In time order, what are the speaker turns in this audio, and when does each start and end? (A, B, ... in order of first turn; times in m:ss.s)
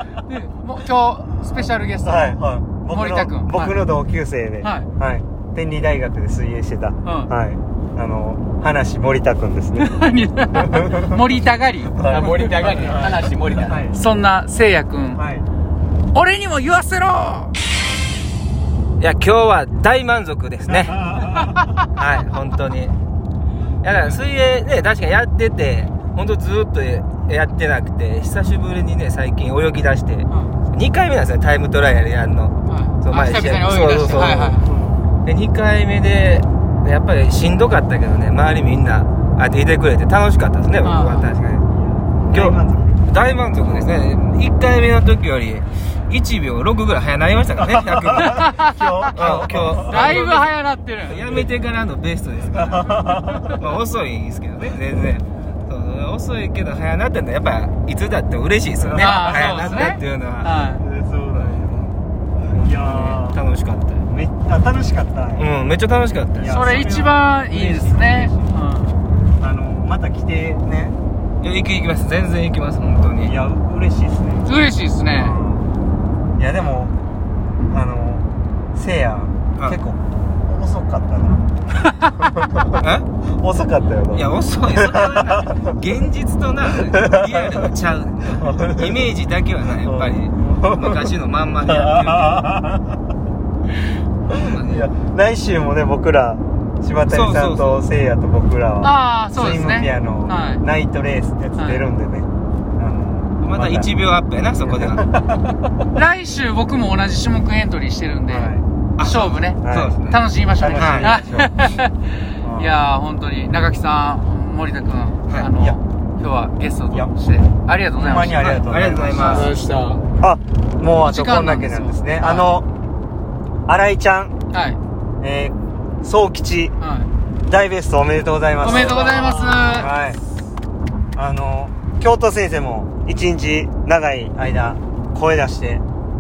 0:00.2-0:02.4 A
0:02.0-0:09.9 B
0:02.9-0:03.8 A
0:04.6-0:04.9 A
0:07.0-0:07.3 A
0:09.8-0:12.0 A
0:10.6-0:11.1 B
0:12.0-0:14.0 B
0:12.1-0:13.8 C
0:13.9-0:15.2 A
0:15.2-0:15.5 B
0:16.1-0:17.5 A
0:19.0-0:21.1 D
0:20.8-0:21.5 B
0:22.0-0:23.0 D
0:23.8-0:34.6 D
0:32.7-0:34.7 A
0:34.2-0:35.0 B
0:35.2-0:41.6 D
0:40.8-0:41.3 A
0:41.7-0:43.9 B
0:42.3-0:48.5 D
0:47.7-0:50.2 B
0:48.3-0:48.9 A
0:49.2-0:50.5 D
0:49.9-0:51.2 A
0:51.1-1:00.5 D
0:52.5-0:53.6 B
0:54.6-0:55.1 B
0:58.8-1:00.0 B
0:59.0-1:00.8 A
1:00.8-1:02.0 B
1:01.4-1:01.7 D
1:02.5-1:04.0 D
1:02.5-1:03.4 B
1:04.1-1:05.5 B
1:05.4-1:06.5 D
1:06.4-1:08.5 B
1:06.5-1:09.0 A
1:09.4-1:11.0 B
1:11.4-1:13.4 D
1:13.2-1:14.5 B
1:14.4-1:15.4 A
1:15.2-1:15.7 B
1:16.4-1:16.9 B
1:17.7-1:21.4 B
1:22.8-1:23.1 D
1:23.2-1:25.4 B
1:24.1-1:32.4 D
1:26.9-1:27.7 B
1:28.3-1:28.9 B
1:29.8-1:31.0 B
1:31.6-1:32.8 B
1:34.3-1:34.9 D
1:34.3-1:43.9 B
1:37.1-1:37.8 D
1:38.8-1:40.6 A
1:41.6-1:41.8 A
1:43.4-1:45.0 D
1:44.7-1:45.4 B
1:45.9-1:51.9 A
1:48.3-1:48.6 B
1:49.0-1:50.2 D
1:49.6-1:50.0 B
1:50.6-1:51.7 B
1:50.8-1:51.1 D
1:52.4-1:52.8 B
1:52.6-1:58.6 A
1:57.9-1:59.5 B
1:58.4-1:59.5 D
1:59.2-2:00.0 C
2:00.2-2:02.6 B
2:01.0-2:02.5 A
2:03.7-2:04.3 B
2:04.5-2:04.8 A
2:05.2-2:06.7 B
2:06.8-2:07.1 A
2:07.4-2:10.2 B
2:08.6-2:09.9 A
2:08.6-2:10.0 C
2:11.2-2:15.8 B